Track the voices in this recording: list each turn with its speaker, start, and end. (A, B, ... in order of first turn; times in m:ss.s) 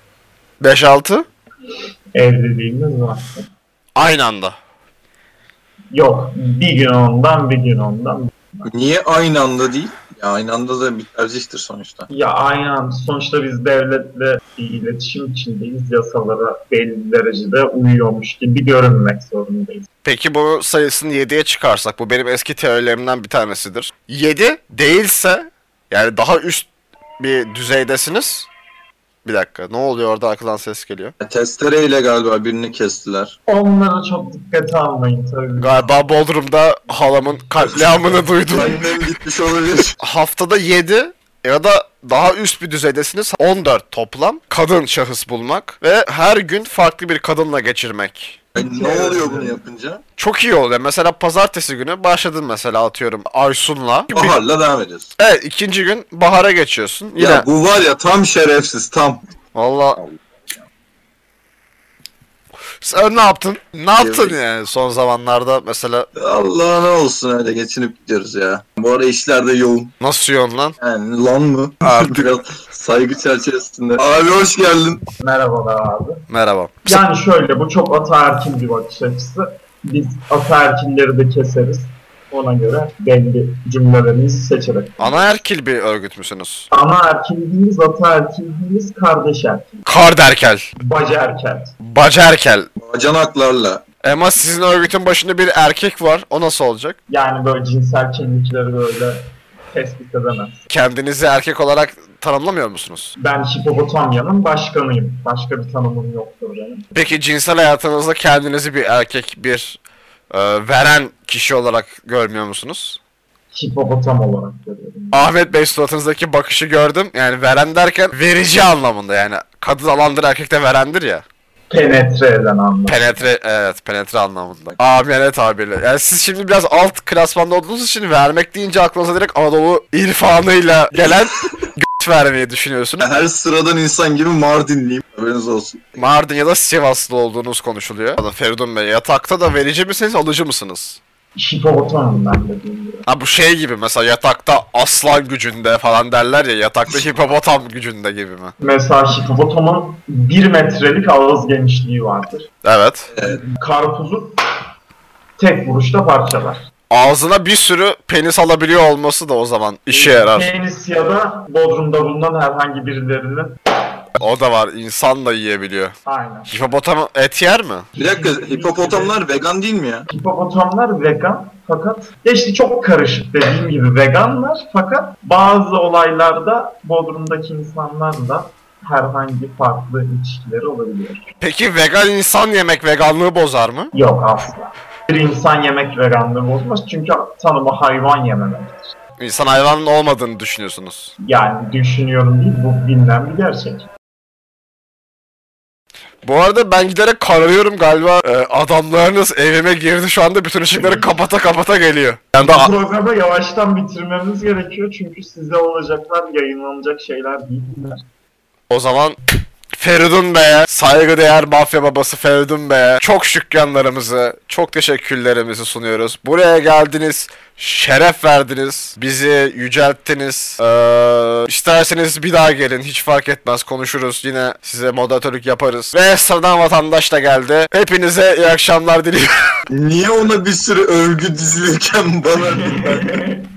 0:00.6-0:01.2 A
0:02.2-0:03.5 B
0:04.0-0:04.6 A
0:05.9-0:08.7 B
0:08.7-0:12.1 C
0:12.1-0:19.8 B
0:20.0-0:26.7 A
0:27.2-0:28.5 A
0:29.2-0:31.1 A
0:31.2-0:33.4 C
0:33.5-0:35.8 B
0:35.6-0:38.9 A
0:37.8-0:40.0 C
0:40.0-0:48.4 A
0:48.6-0:50.0 C
0:48.6-0:49.6 B
0:50.2-0:54.4 A
0:54.1-0:55.1 C
0:55.2-0:57.5 A
0:57.2-0:59.2 C
0:59.6-1:00.0 A
1:02.8-1:06.1 A
1:04.0-1:04.4 C
1:06.2-1:09.9 C
1:10.0-1:10.8 A
1:10.8-1:15.1 C
1:11.8-1:12.3 A
1:15.2-1:16.2 B
1:16.3-1:17.0 A
1:16.9-1:25.3 B
1:25.0-1:26.7 A
1:26.7-1:29.8 B
1:29.9-1:30.7 A
1:30.8-1:31.7 B
1:31.8-1:32.7 A
1:32.8-1:33.8 C
1:34.0-1:37.0 A
1:37.1-1:39.2 B
1:39.7-1:40.6 B
1:40.7-1:43.1 A
1:43.2-1:46.9 B
1:47.0-1:49.8 A
1:50.3-1:53.0 A
1:53.5-1:55.3 B
1:55.1-2:01.2 A
2:01.7-2:03.1 B
2:02.9-2:13.1 A
2:13.0-2:16.0 C
2:16.0-2:21.0 A
2:21.4-2:23.0 B
2:23.1-2:28.5 A
2:28.6-2:32.5 B
2:32.6-2:33.1 A
2:33.1-2:33.4 C
2:33.2-2:34.4 B
2:35.4-2:36.6 B
2:36.9-2:40.5 A
2:39.9-2:43.6 B
2:44.2-2:46.0 A
2:46.0-2:46.5 B
2:46.5-2:47.9 A
2:48.0-2:50.1 C
2:48.0-2:49.1 B
2:50.1-3:01.3 B
3:01.4-3:03.9 A
3:03.9-3:08.9 B
3:09.2-3:11.1 A
3:11.2-3:13.9 B
3:16.2-3:22.7 A
3:22.4-3:28.0 B
3:28.7-3:29.2 A
3:29.8-3:49.3 A
3:49.7-3:53.2 C
3:53.2-3:53.5 B